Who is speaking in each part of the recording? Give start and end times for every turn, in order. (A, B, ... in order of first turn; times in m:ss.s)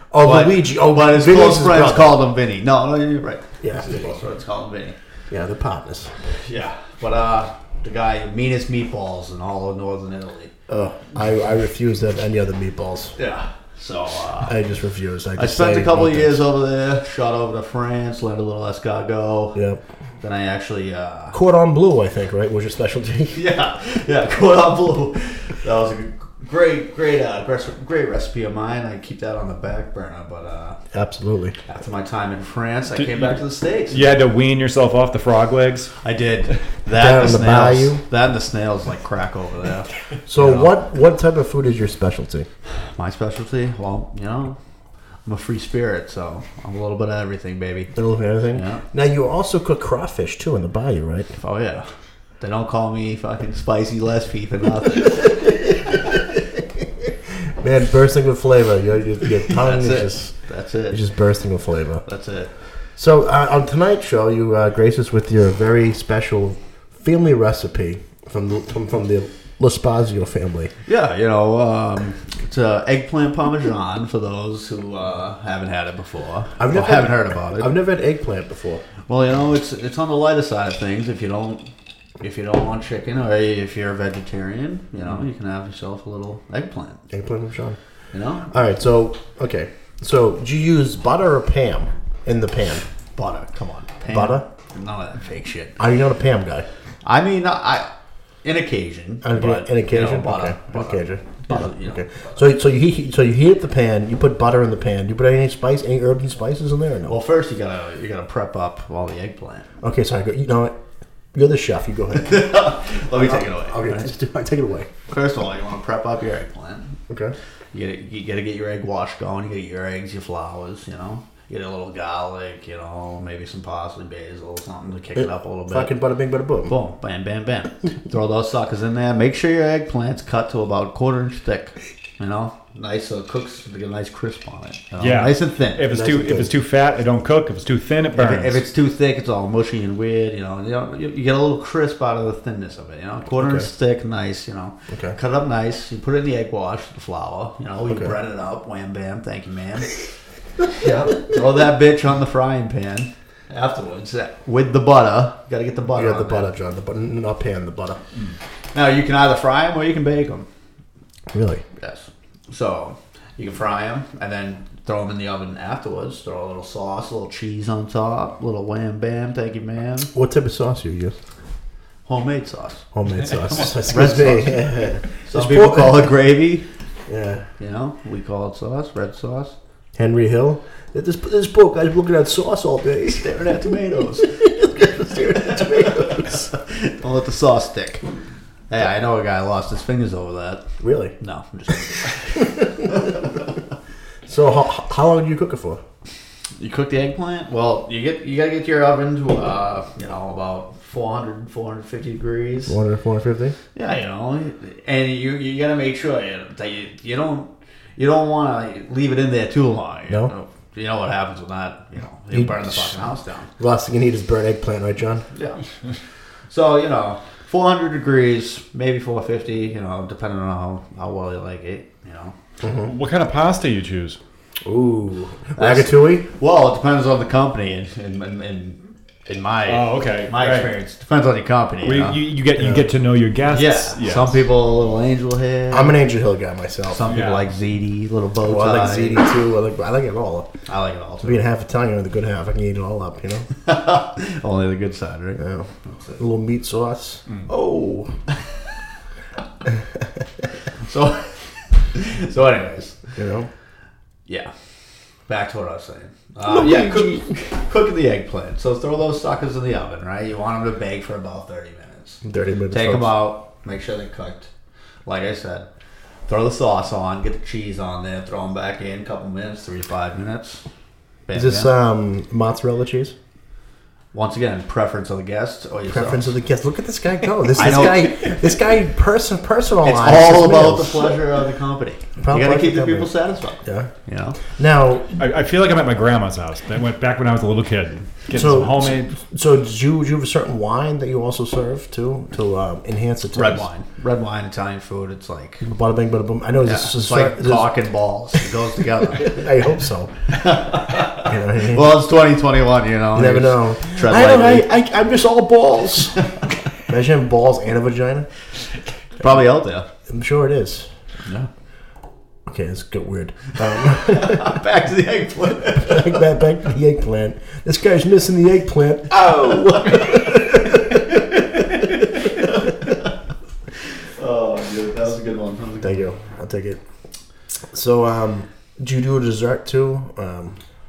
0:00.1-0:02.2 A
0:00.2-0:05.0 B
0:03.6-0:04.2 A
0:05.3-0:06.1 A
0:06.4-0:10.5 B
0:10.7-0:13.1 A
0:13.2-0:14.6 B
0:14.5-0:16.5 A
0:15.4-0:19.6 B
0:19.6-0:19.8 A
0:20.2-0:21.4 B
0:21.3-0:23.4 A
0:23.3-0:30.8 B
0:30.9-0:31.6 A
0:31.7-0:34.0 B
0:33.0-0:33.4 C
0:33.9-0:35.9 C
0:36.0-0:40.7 B
0:36.9-0:38.0 A
0:40.3-0:42.5 A
0:42.8-0:44.6 B
0:45.2-0:47.9 B
0:48.0-0:51.3 A
0:48.5-0:48.8 B
0:51.4-0:51.9 B
0:52.4-0:55.4 B
0:57.6-1:00.3 A
0:59.5-1:01.0 B
1:00.9-1:02.0 A
1:02.0-1:02.5 B
1:03.0-1:10.7 A
1:10.9-1:17.7 B
1:16.6-1:18.8 A
1:19.1-1:21.7 B
1:22.2-1:27.0 B
1:27.1-1:27.8 A
1:28.1-1:28.5 B
1:28.5-1:32.9 A
1:33.2-1:35.8 B
1:34.1-1:34.4 A
1:35.8-1:36.7 A
1:37.0-1:37.9 B
1:38.4-1:42.4 B
1:39.2-1:47.2 A
1:47.1-1:49.7 B
1:49.8-1:50.8 A
1:51.3-1:54.9 A
1:52.2-1:54.1 B
1:55.1-1:57.0 B
1:57.1-1:57.3 A
1:57.7-2:05.9 B
2:05.2-2:06.8 A
2:06.7-2:15.8 B
2:15.0-2:18.6 C
2:15.8-2:16.5 A
2:18.1-2:30.0 B
2:23.4-2:23.7 A
2:27.9-2:28.2 A
2:30.8-2:36.5 B
2:35.9-2:38.0 A
2:38.7-2:40.5 B
2:41.3-2:41.6 A
2:41.8-2:50.1 B
2:50.1-2:51.2 A
2:52.1-2:52.9 B
2:52.9-2:56.2 A
2:53.6-2:54.6 B
2:55.2-2:56.7 B
2:57.1-2:57.5 A
2:57.6-2:59.6 B
3:00.0-3:03.4 A
3:03.1-3:04.4 B
3:04.1-3:06.5 A
3:05.0-3:08.0 B
3:08.7-3:10.7 B
3:10.8-3:11.2 A
3:11.2-3:13.2 B
3:14.3-3:15.8 A
3:16.6-3:22.8 B
3:22.6-3:23.6 A
3:23.8-3:33.5 B
3:32.3-3:35.2 A
3:35.3-3:35.6 B
3:36.5-3:42.3 B
3:42.6-3:42.9 A
3:42.8-3:44.2 C
3:44.6-3:46.3 A
3:45.6-3:52.2 B
3:49.7-3:50.7 C
3:51.8-3:54.5 C
3:52.6-3:52.9 A
3:53.5-3:56.0 B
3:55.7-3:57.1 A
3:56.9-3:59.2 B
3:57.1-3:57.5 C
3:58.4-4:00.5 A
4:00.7-4:01.4 B
4:01.2-4:03.5 A
4:03.6-4:06.2 B
4:05.4-4:08.1 A
4:10.8-4:13.0 B
4:13.2-4:13.5 A
4:15.3-4:24.5 B
4:16.4-4:17.4 A
4:22.2-4:23.3 A
4:25.1-4:25.7 B
4:26.3-4:30.6 B
4:31.3-4:31.7 B
4:31.3-4:33.2 A
4:34.1-4:36.4 B
4:35.9-4:41.2 A
4:37.5-4:38.5 B
4:39.8-4:44.4 B
4:42.2-4:43.9 A
4:44.5-4:45.2 A
4:45.2-4:49.2 C
4:48.3-4:53.7 A
4:53.4-4:55.6 B
4:55.6-4:57.8 A
4:56.6-4:59.5 B
4:59.3-5:00.1 A
5:00.3-5:04.7 B
5:01.2-5:02.0 A
5:03.1-5:06.2 A
5:06.9-5:08.3 A
5:09.2-5:09.9 B
5:10.1-5:10.9 A
5:11.2-5:11.5 B
5:12.5-5:14.6 A
5:13.8-5:16.2 B
5:15.7-5:21.0 A
5:19.1-5:20.3 B
5:22.3-5:23.1 B
5:24.2-5:26.0 B
5:25.8-5:26.8 A
5:27.7-5:30.6 A